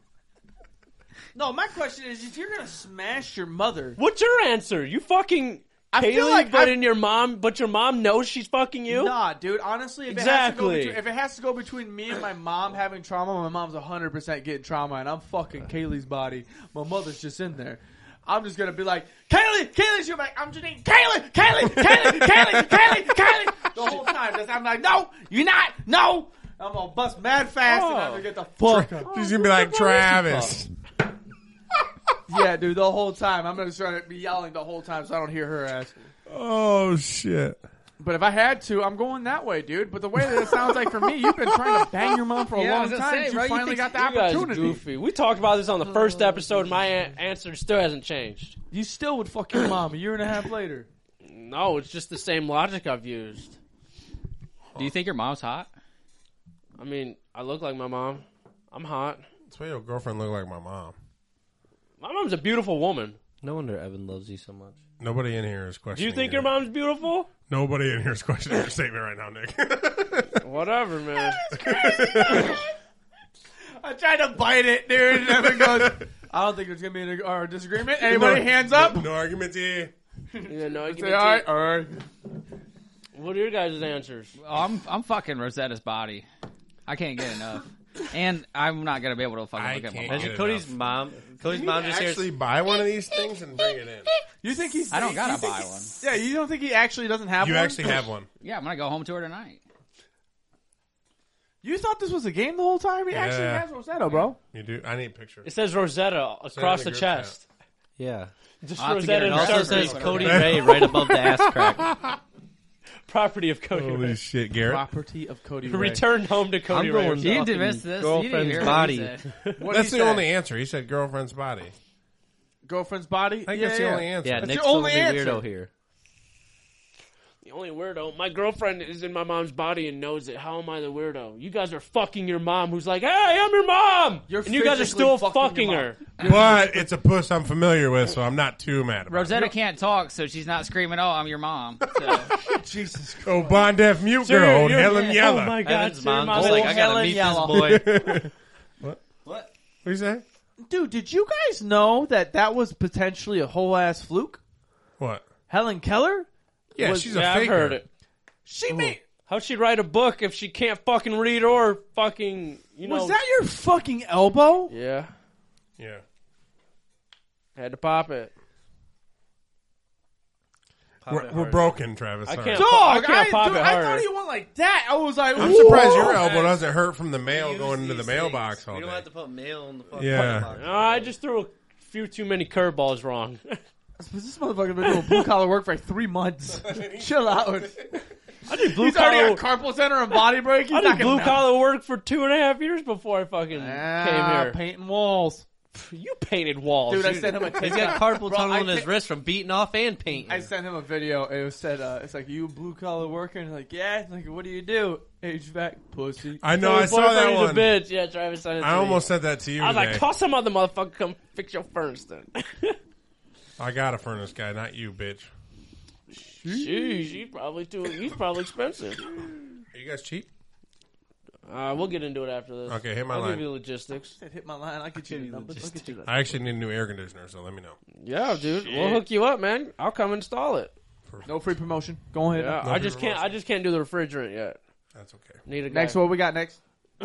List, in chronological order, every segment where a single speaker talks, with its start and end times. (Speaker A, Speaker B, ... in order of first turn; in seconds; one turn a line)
Speaker A: 1.4-4.0
Speaker B: 4.0-9.2
Speaker A: 5.9-6.8
Speaker A: 8.9-29.1
Speaker B: 10.1-11.0
Speaker C: 21.9-22.5
Speaker B: 27.7-28.2
Speaker C: 28.6-30.7
Speaker B: 29.0-30.6
Speaker A: 32.3-36.0
Speaker C: 36.3-37.6
Speaker A: 38.0-44.8
Speaker C: 40.3-41.9
Speaker D: 42.5-44.0
Speaker B: 43.9-48.6
Speaker A: 48.7-50.9
Speaker B: 51.2-53.6
Speaker D: 54.8-55.7
Speaker B: 56.8-59.2
Speaker C: 59.5-61.0
Speaker B: 62.0-63.2
Speaker E: 63.4-64.8
Speaker C: 65.0-66.5
Speaker B: 65.9-67.3
Speaker C: 67.5-70.4
Speaker B: 70.4-71.4
Speaker A: 71.2-72.7
Speaker C: 71.5-72.6
Speaker A: 73.8-79.1
Speaker C: 75.2-76.1
Speaker C: 78.0-79.9
Speaker A: 80.3-82.0
Speaker B: 80.5-81.5
Speaker B: 83.1-84.3
Speaker D: 84.4-86.3
Speaker D: 86.9-90.4
Speaker C: 89.6-90.7
Speaker E: 90.1-92.3
Speaker C: 91.4-94.1
Speaker A: 94.4-98.0
Speaker D: 94.9-96.0
Speaker C: 97.4-98.3
Speaker D: 98.4-99.6
Speaker A: 101.6-104.4
Speaker C: 103.1-103.7
Speaker C: 104.4-105.5
Speaker B: 105.4-107.5
Speaker C: 106.5-107.3
Speaker E: 108.0-108.3
Speaker B: 108.6-110.5
Speaker D: 108.8-110.7
Speaker E: 109.0-111.9
Speaker C: 110.2-112.2
Speaker B: 113.1-114.2
Speaker C: 113.7-114.8
Speaker A: 114.6-116.0
Speaker B: 115.7-117.5
Speaker E: 116.7-119.2
Speaker D: 117.2-119.3
Speaker A: 119.5-120.3
Speaker C: 119.7-121.8
Speaker A: 122.7-125.5
Speaker C: 123.5-124.5
Speaker E: 124.2-125.7
Speaker B: 127.4-136.0
Speaker A: 134.3-136.6
Speaker C: 136.2-139.5
Speaker D: 139.1-142.3
Speaker C: 141.9-142.6
Speaker A: 142.5-143.7
Speaker C: 143.2-145.6
Speaker B: 144.2-147.0
Speaker E: 145.6-148.2
Speaker A: 146.3-147.9
Speaker C: 147.4-149.0
Speaker E: 149.2-149.5
Speaker C: 149.8-150.2
Speaker A: 150.6-154.4
Speaker C: 155.0-155.2
Speaker A: 155.5-156.3
Speaker C: 156.8-157.8
Speaker B: 156.8-157.9
Speaker A: 158.5-159.0
Speaker B: 158.7-163.2
Speaker A: 162.8-164.7
Speaker B: 164.7-165.1
Speaker C: 165.8-166.0
Speaker B: 167.6-168.3
Speaker E: 171.0-171.8
Speaker C: 171.1-172.7
Speaker B: 172.3-174.1
Speaker A: 172.5-176.2
Speaker C: 175.4-179.1
Speaker E: 176.1-176.6
Speaker E: 177.3-181.1
Speaker C: 179.9-180.5
Speaker B: 180.1-183.6
Speaker A: 184.0-187.8
Speaker B: 184.9-185.2
Speaker C: 186.6-188.0
Speaker B: 188.5-189.5
Speaker A: 188.5-191.5
Speaker B: 190.7-194.6
Speaker A: 193.5-195.5
Speaker B: 195.7-197.9
Speaker A: 196.9-198.9
Speaker E: 197.5-200.5
Speaker A: 200.3-206.4
Speaker C: 206.4-207.8
Speaker B: 206.6-209.1
Speaker C: 208.6-210.0
Speaker B: 209.6-212.8
Speaker C: 213.6-215.3
Speaker A: 216.2-217.2
Speaker B: 216.4-219.2
Speaker C: 219.7-220.3
Speaker B: 221.5-224.2
Speaker C: 222.7-223.5
Speaker A: 224.2-226.3
Speaker E: 225.1-225.9
Speaker C: 226.1-227.8
Speaker B: 228.0-230.7
Speaker A: 228.8-229.0
Speaker C: 231.1-231.3
Speaker A: 231.3-232.6
Speaker B: 232.3-234.6
Speaker C: 232.6-233.4
Speaker C: 234.9-235.4
Speaker B: 235.5-236.1
Speaker A: 235.7-236.6